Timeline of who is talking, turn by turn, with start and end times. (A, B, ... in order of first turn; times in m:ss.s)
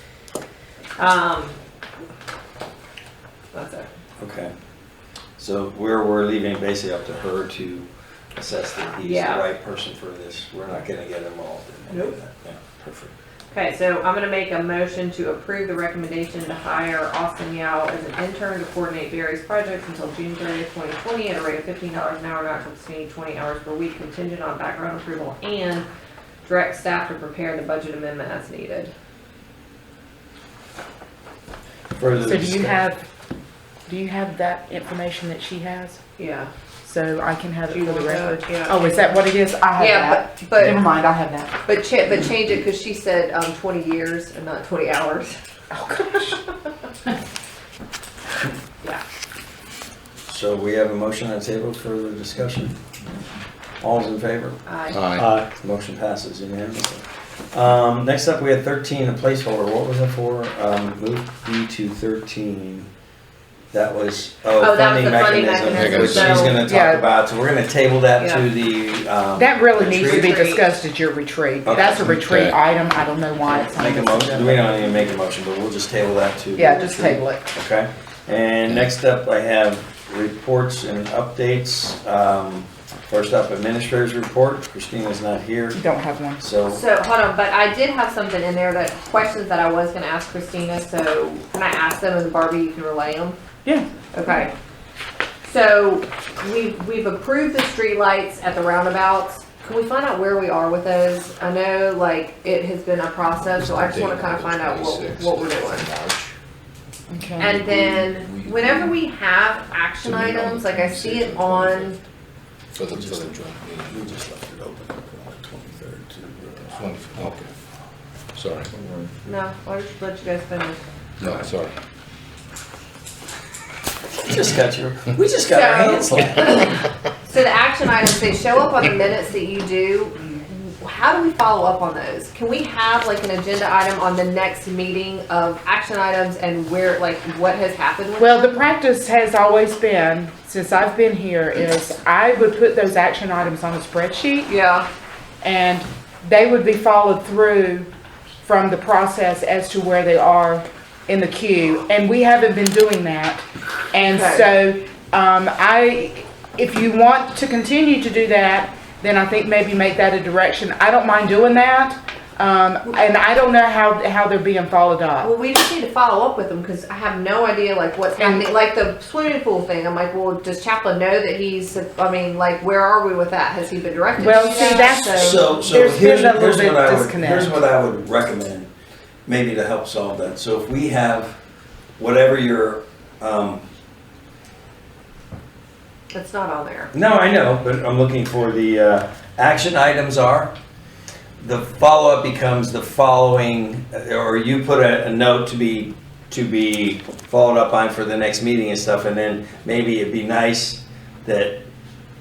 0:01.0-0:01.6 A
0:03.5-0:03.9 A
0:04.2-0:04.5 B
0:05.4-0:13.1 B
0:09.0-0:09.5 A
0:11.9-0:12.2 A
0:13.5-0:25.9 A
0:26.4-0:28.9 A
0:32.0-0:32.8 B
0:32.2-0:33.0 C
0:33.9-0:36.0 C
0:36.2-0:36.5 A
0:36.8-0:41.6 C
0:37.7-0:39.0 A
0:39.8-0:40.8 A
0:41.6-0:45.4 A
0:45.7-0:46.4 C
0:50.3-0:52.8 B
0:53.8-0:54.6 B
0:54.7-0:55.0 A
0:54.9-0:55.3 D
0:55.6-1:02.9 B
1:03.7-1:10.4 B
1:04.6-1:06.6 A
1:05.7-1:06.6 D
1:06.6-1:07.0 C
1:08.2-1:08.5 A
1:09.4-1:15.0 C
1:09.8-1:10.7 A
1:11.6-1:12.1 B
1:11.9-1:12.6 D
1:13.4-1:25.8 B
1:16.6-1:17.5 C
1:25.8-1:26.4 C
1:26.4-1:26.8 B
1:26.7-1:33.4 A
1:34.1-1:34.5 A
1:35.4-1:45.9 A
1:43.5-1:46.3 D
1:47.1-1:47.5 C
1:47.4-1:52.0 A
1:47.4-1:49.0 D
1:50.0-1:52.0 D
1:52.7-1:54.2 D
1:54.1-1:56.7 B
1:56.7-1:57.5 D
1:58.4-1:58.7 D
1:59.3-2:00.8 A
2:01.2-2:01.8 D
2:04.2-2:06.7 B
2:05.5-2:18.4 A
2:18.2-2:24.5 C
2:24.5-2:24.9 A
2:25.4-2:27.9 C
2:28.4-2:45.3 C
2:34.0-2:34.5 A
2:45.2-2:55.5 A
2:48.2-2:48.5 C
2:54.2-2:57.6 C
2:55.2-2:58.7 B
2:59.3-3:01.4 B
3:02.0-3:03.6 B
3:06.1-3:06.9 A
3:06.9-3:10.5 B
3:11.4-3:21.6 B